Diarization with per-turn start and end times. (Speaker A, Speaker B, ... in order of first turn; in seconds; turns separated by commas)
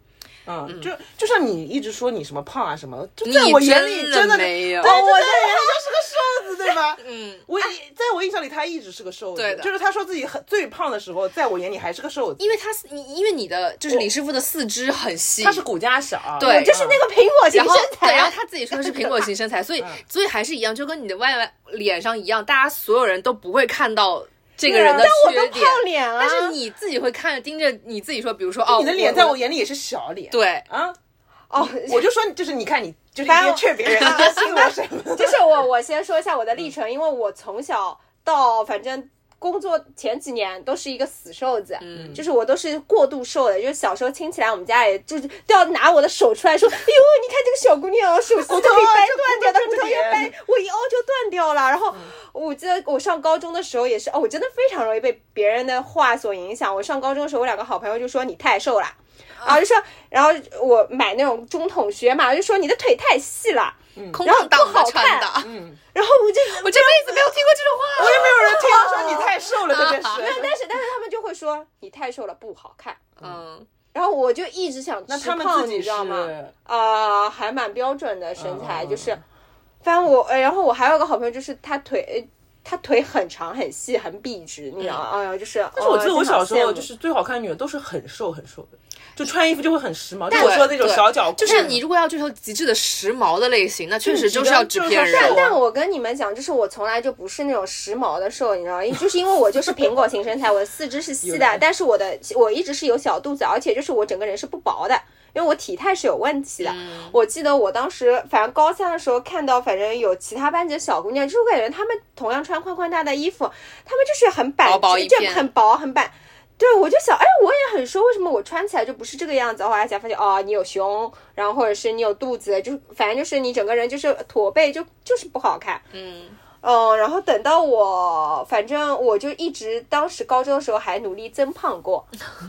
Speaker A: 0.5-12.5, Speaker B: 3.2-5.0, Speaker C: 4.8-5.9, Speaker B: 7.0-7.5, Speaker B: 9.3-9.7, Speaker B: 12.4-15.6, Speaker A: 15.4-17.0, Speaker B: 16.4-16.8, Speaker C: 16.4-19.3, Speaker B: 17.5-29.4, Speaker C: 24.6-26.6, Speaker A: 28.7-31.0, Speaker B: 30.3-30.7, Speaker C: 31.5-32.1, Speaker A: 31.6-35.5, Speaker C: 33.2-69.5, Speaker B: 41.8-42.2, Speaker A: 41.9-42.2, Speaker A: 48.4-50.3, Speaker A: 64.0-64.2, Speaker B: 64.1-65.5, Speaker A: 65.4-65.8, Speaker B: 66.5-68.7, Speaker A: 68.0-70.5, Speaker B: 69.7-70.2, Speaker C: 70.0-73.1, Speaker B: 73.2-73.7, Speaker C: 73.9-79.2, Speaker A: 75.1-76.5, Speaker A: 78.4-79.2, Speaker C: 79.8-86.9, Speaker B: 84.8-85.0, Speaker A: 85.8-91.8, Speaker C: 90.3-90.7, Speaker B: 90.3-95.4, Speaker C: 91.4-91.7, Speaker A: 94.0-95.6, Speaker C: 95.1-125.8, Speaker A: 101.2-101.6, Speaker B: 106.6-107.2, Speaker B: 114.6-115.5, Speaker B: 125.9-126.4, Speaker C: 126.6-132.1